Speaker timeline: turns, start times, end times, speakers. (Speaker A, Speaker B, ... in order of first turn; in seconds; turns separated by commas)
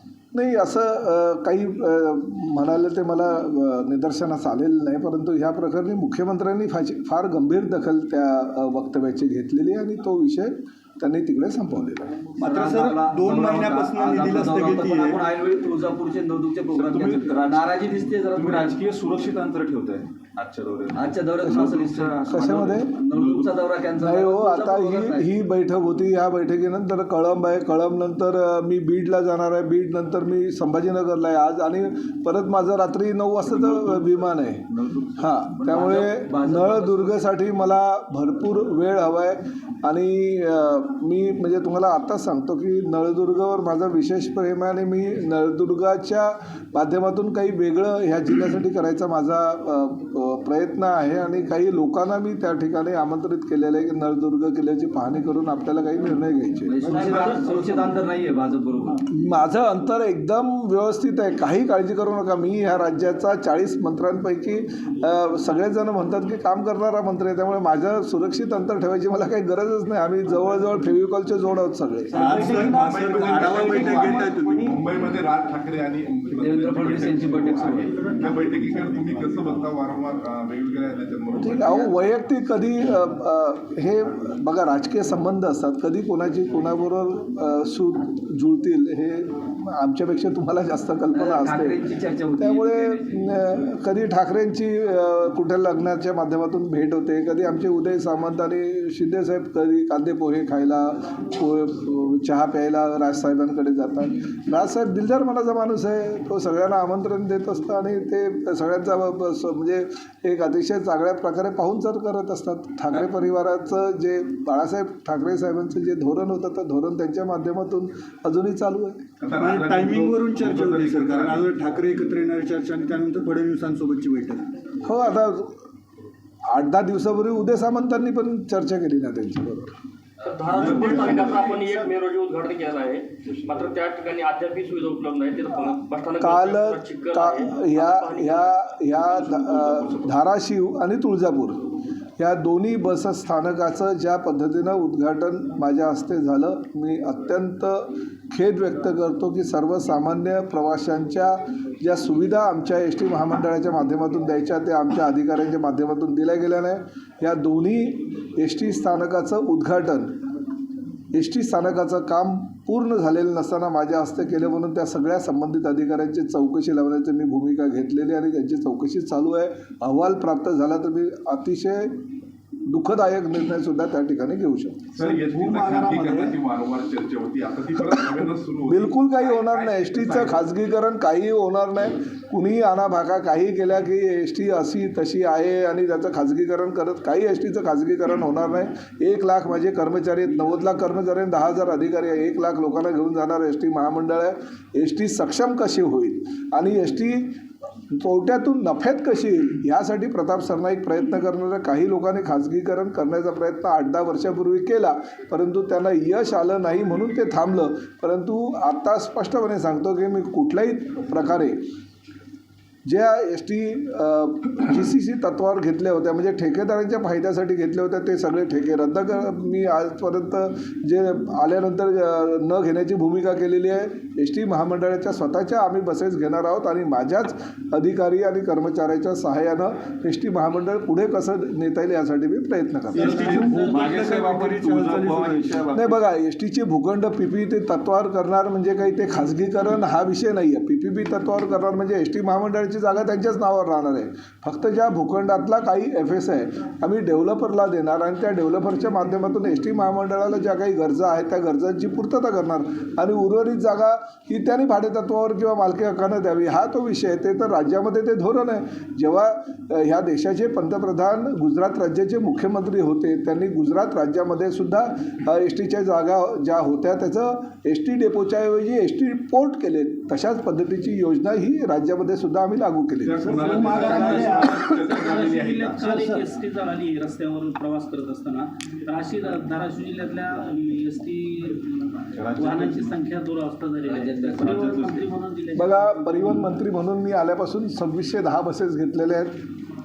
Speaker A: 0.3-12.2, Speaker B: 12.4-15.2, Speaker C: 12.4-18.8, Speaker D: 16.7-23.7, Speaker C: 20.9-22.2, Speaker A: 21.4-23.0, Speaker C: 23.0-25.3, Speaker A: 24.0-57.2, Speaker D: 33.4-35.5, Speaker C: 35.7-37.2, Speaker C: 56.7-59.0, Speaker E: 56.9-57.5, Speaker A: 59.1-72.3, Speaker B: 72.1-74.8, Speaker E: 72.1-81.9, Speaker D: 73.3-74.1, Speaker C: 76.3-78.0, Speaker A: 81.3-91.8, Speaker C: 91.1-93.3, Speaker A: 92.4-119.1, Speaker E: 119.2-122.0, Speaker B: 119.3-124.4, Speaker A: 124.8-125.6, Speaker A: 126.5-129.7, Speaker F: 130.2-138.6, Speaker E: 130.5-131.5, Speaker A: 136.2-160.2, Speaker D: 139.0-140.1, Speaker A: 161.1-172.0, Speaker A: 172.7-174.9, Speaker E: 174.9-180.4, Speaker B: 174.9-176.4, Speaker A: 177.8-197.3, Speaker A: 197.9-211.6, Speaker A: 212.8-233.3, Speaker E: 232.9-234.5, Speaker D: 233.0-236.0, Speaker B: 233.8-235.3, Speaker A: 235.7-273.5, Speaker E: 273.0-276.0, Speaker B: 273.3-274.5, Speaker G: 273.4-286.3, Speaker B: 275.8-276.2, Speaker D: 282.1-283.0, Speaker C: 283.8-284.7, Speaker D: 284.4-285.1, Speaker A: 285.5-289.4